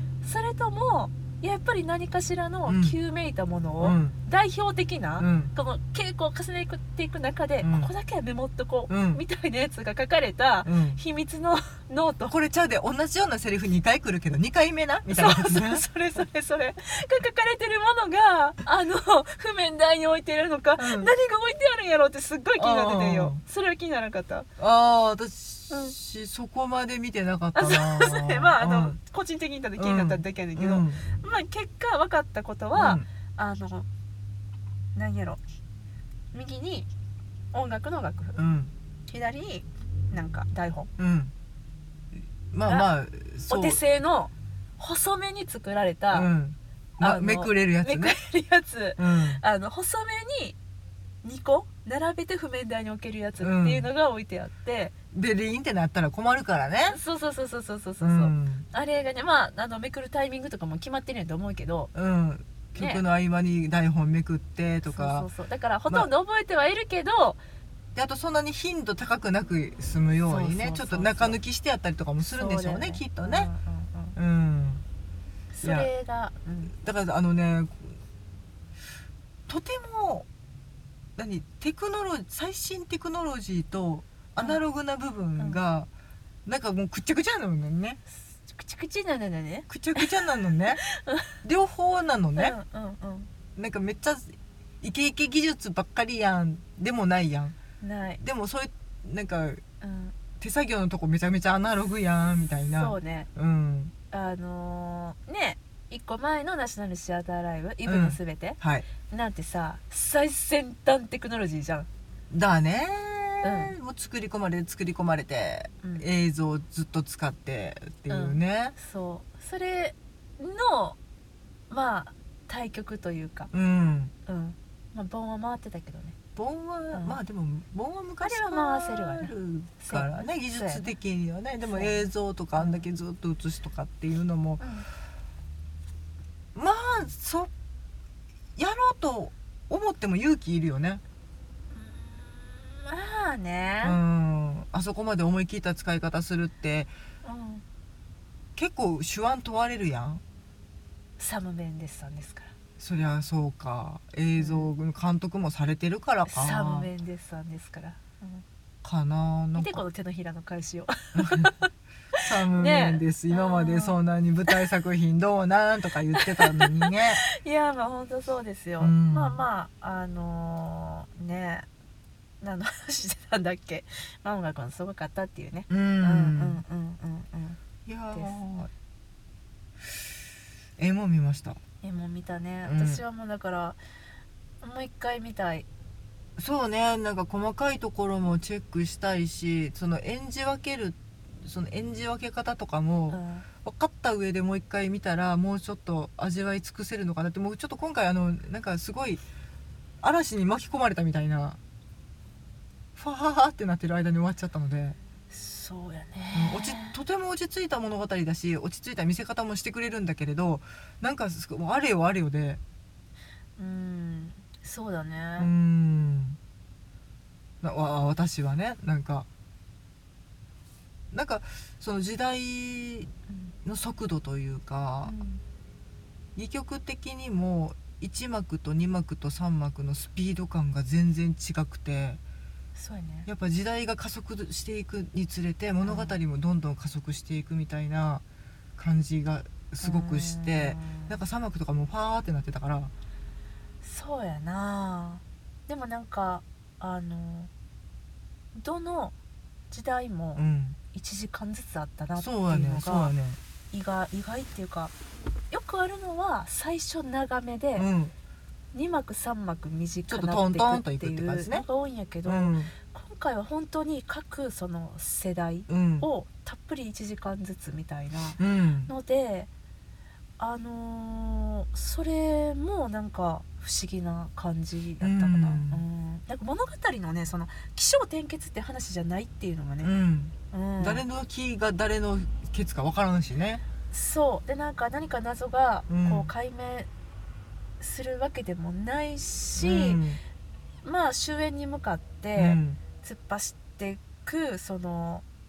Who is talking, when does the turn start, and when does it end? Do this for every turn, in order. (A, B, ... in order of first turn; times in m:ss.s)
0:00.2-0:12.3 A
0:02.6-0:03.0 B
0:03.8-0:04.2 B
0:05.2-0:05.5 B
0:07.6-0:07.9 B
0:08.9-0:09.2 B
0:10.6-0:11.0 B
0:12.3-0:15.8 B
0:15.1-0:24.5 A
0:20.8-0:21.1 B
0:22.6-0:23.4 B
0:24.6-0:29.0 B
0:25.7-0:25.9 A
0:27.5-0:33.9 A
0:29.8-0:31.0 B
0:32.7-0:33.0 B
0:35.0-0:35.4 A
0:36.3-0:36.9 A
0:37.5-0:38.4 A
0:38.4-0:38.7 B
0:39.1-0:40.9 A
0:41.0-0:41.3 B
0:42.5-0:43.8 B
0:43.5-0:46.3 A
0:46.1-0:48.2 B
0:47.0-0:50.6 A
0:49.0-0:49.4 B
0:51.2-0:54.9 A
0:53.4-0:53.9 B
0:55.1-0:57.0 B
0:56.9-1:01.9 A
0:58.0-0:58.6 B
1:01.9-1:05.3 B
1:02.8-1:03.0 A
1:04.8-1:07.4 A
1:07.9-1:13.5 B
1:10.2-1:11.4 A
1:12.2-1:14.2 A
1:14.2-1:14.8 B
1:15.5-1:16.7 A
1:15.6-1:15.9 B
1:16.7-1:18.0 B
1:19.5-1:20.3 B
1:21.2-1:25.9 B
1:26.4-1:28.0 B
1:28.1-1:30.1 A
1:29.7-1:30.8 B
1:30.8-1:31.3 A
1:31.4-1:32.6 B
1:32.4-1:33.3 A
1:33.6-1:37.6 B
1:37.8-1:38.2 A
1:38.2-1:39.6 B
1:39.8-1:40.2 A
1:40.4-1:43.9 B
1:42.8-1:43.3 A
1:44.1-1:51.9 A
1:47.8-1:48.9 B
1:52.3-1:58.7 B
1:53.4-1:53.7 A
1:55.8-1:56.1 A
1:58.1-2:01.0 A
2:01.7-2:03.5 A
2:03.5-2:04.1 B
2:04.2-2:06.2 A
2:06.4-2:14.6 B
2:06.9-2:07.2 A
2:08.2-2:10.9 A
2:11.6-2:12.8 A
2:14.6-2:14.9 A
2:16.5-2:17.5 B
2:18.6-2:21.0 B
2:21.7-2:24.0 A
2:23.8-2:26.9 B
2:27.2-2:27.6 A
2:28.6-2:30.2 B
2:31.2-2:32.5 A
2:32.8-2:36.9 B
2:34.4-2:34.7 A
2:36.3-2:38.4 A
2:38.8-2:39.8 B
2:39.6-2:44.6 A
2:41.1-2:41.5 B
2:42.2-2:47.2 B
2:46.1-2:51.7 A
2:48.8-2:49.4 B
2:52.4-2:57.6 A
2:55.7-2:56.6 B
2:57.8-2:58.7 B
3:00.8-3:01.6 B
3:01.8-3:03.8 A
3:02.6-3:03.0 B
3:04.6-3:05.7 A
3:06.4-3:19.2 B
3:13.1-3:13.5 A
3:20.0-3:21.6 B
3:23.0-3:25.0 B
3:25.3-3:27.0 A
3:26.3-3:32.6 B
3:33.6-3:35.5 A
3:35.4-3:36.4 B
3:37.6-3:39.3 B
3:41.1-3:43.1 B
3:43.3-3:43.5 A
3:43.6-3:45.1 B
3:45.0-3:45.4 A
3:46.4-3:52.2 B
3:52.7-3:53.3 A
3:53.2-3:58.2 B
3:55.8-3:56.2 A
3:58.8-4:02.9 B
3:59.8-4:01.2 A
4:03.8-4:07.5 A
4:08.5-4:09.2 A
4:09.7-4:13.1 A
4:10.4-4:10.8 B
4:12.2-4:13.4 B
4:13.7-4:14.9 A
4:15.5-4:17.9 A
4:17.8-4:18.1 B
4:18.7-4:29.5 A
4:20.1-4:21.6 B
4:22.2-4:22.7 B
4:25.7-4:26.1 B
4:28.4-4:28.9 B
4:30.4-4:39.9 A
4:35.0-4:35.8 B
4:39.8-4:43.6 B
4:40.5-4:41.0 A
4:43.9-4:46.9 A
4:45.9-4:46.3 B
4:47.8-4:50.0 A
4:49.6-4:50.2 B
4:50.8-4:55.2 A
4:52.4-4:52.8 B